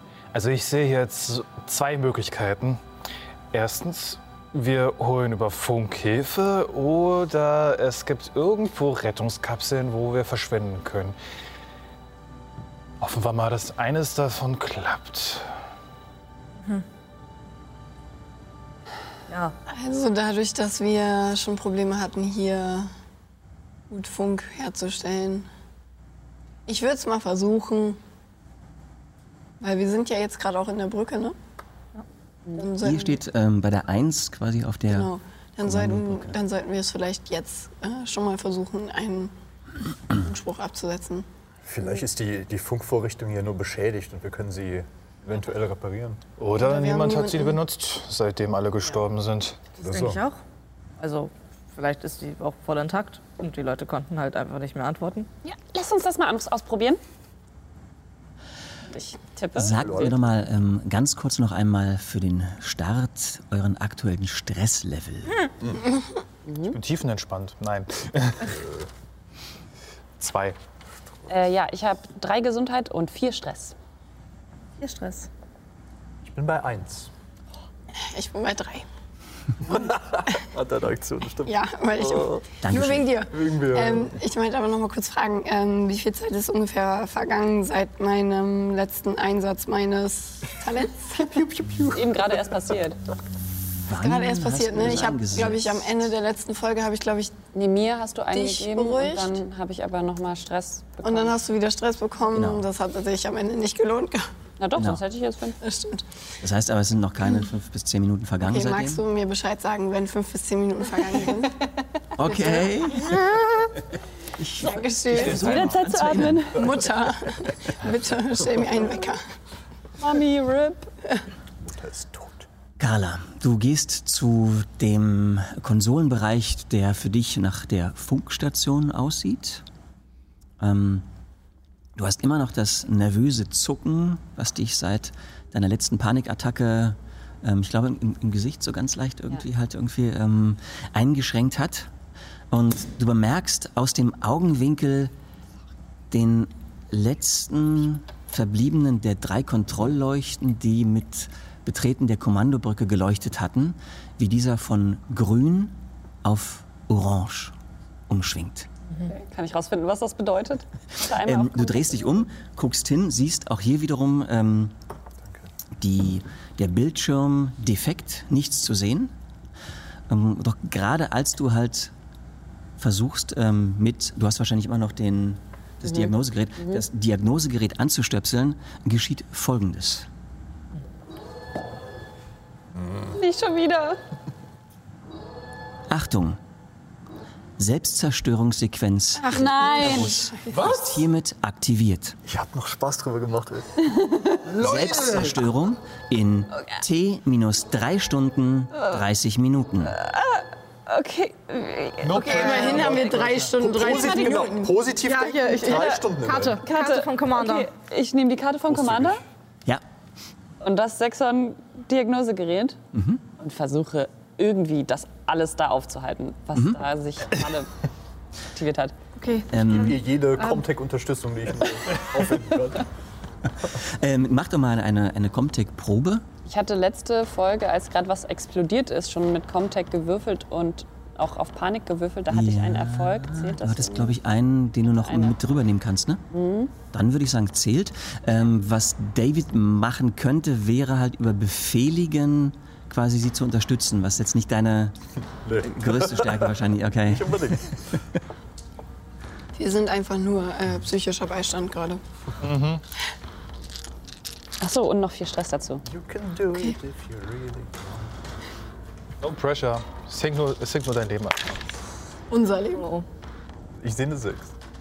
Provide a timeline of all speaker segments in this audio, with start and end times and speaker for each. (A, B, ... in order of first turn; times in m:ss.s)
0:00.3-0:02.8 A
0:03.5-0:11.2 A
0:13.0-0:15.5 A
0:19.3-0:19.6 B
0:19.7-0:22.9 C
0:23.9-0:25.5 C
0:26.7-0:28.0 C
0:29.6-0:31.4 C
0:32.5-0:33.2 C
0:32.8-0:35.1 D
0:34.9-0:39.3 C
0:35.6-0:36.4 D
0:40.1-0:41.3 C
0:41.6-0:46.2 E
0:46.4-0:49.6 A
0:46.6-0:47.6 C
0:49.8-0:50.4 B
0:49.8-0:50.2 E
0:51.0-0:55.3 B
0:55.4-0:57.0 F
0:58.9-1:00.2 F
0:59.6-1:05.5 D
0:59.8-1:00.2 E
1:06.5-1:06.8 F
1:06.6-1:08.6 A
1:10.2-1:10.6 A
1:11.3-1:13.8 F
1:14.8-1:15.3 B
1:16.2-1:17.1 E
1:18.0-1:18.9 C
1:19.7-1:22.4 E
1:21.5-1:31.4 C
1:22.6-1:23.1 D
1:23.3-1:24.2 E
1:31.4-1:32.1 E
1:31.9-1:33.0 F
1:33.9-1:35.9 D
1:34.0-1:37.4 C
1:37.5-1:41.3 F
1:38.3-1:39.4 C
1:41.0-1:44.3 C
1:42.3-1:42.7 D
1:44.6-1:45.6 F
1:44.8-1:45.0 D
1:45.6-1:46.0 C
1:46.4-1:49.0 D
1:48.5-1:51.6 C
1:52.2-1:53.2 D
1:52.2-1:53.0 C
1:54.4-1:56.5 D
1:54.5-1:55.8 C
1:55.1-1:56.7 F
1:56.5-1:59.2 C
2:00.0-2:00.9 F
2:01.6-2:02.5 E
2:02.8-2:09.6 D
2:10.6-2:11.1 D
2:12.0-2:21.9 D
2:22.5-2:25.1 D
2:26.1-2:37.5 D
2:38.1-2:38.7 D
2:39.0-2:42.2 F
2:41.0-2:44.7 D
2:45.8-2:49.1 D
2:50.1-2:51.9 D
2:52.8-3:00.1 D
2:55.9-2:56.8 F
3:02.8-3:03.1 E
3:03.1-3:04.0 F
3:05.9-3:06.4 D
3:07.6-3:12.2 D
3:09.2-3:10.7 C
3:09.3-3:10.2 F
3:12.3-3:14.0 E
3:14.6-3:19.9 D
3:14.6-3:15.3 A
3:19.9-3:23.2 F
3:22.0-3:23.5 A
3:22.2-3:24.8 C
3:22.8-3:26.6 E
3:25.0-3:27.7 B
3:26.6-3:29.2 F
3:28.7-3:29.2 E
3:30.6-3:32.8 F
3:32.9-3:33.2 D
3:33.4-3:37.7 F
3:38.5-3:39.0 F
3:39.2-3:39.9 B
3:39.5-3:40.0 D
3:39.6-3:42.9 E
3:43.8-3:46.2 D
3:46.4-3:54.2 F
3:52.3-3:56.2 D
3:55.0-3:55.4 F
3:56.3-3:56.7 F
3:56.9-4:05.0 D
4:05.4-4:06.5 E
4:05.6-4:07.7 D
4:07.0-4:08.0 E
4:09.6-4:12.0 C
4:12.4-4:12.8 A
4:14.6-4:15.8 F
4:15.9-4:18.1 E
4:19.2-4:21.6 A
4:22.3-4:22.9 C
4:22.7-4:23.0 B
4:23.8-4:24.5 E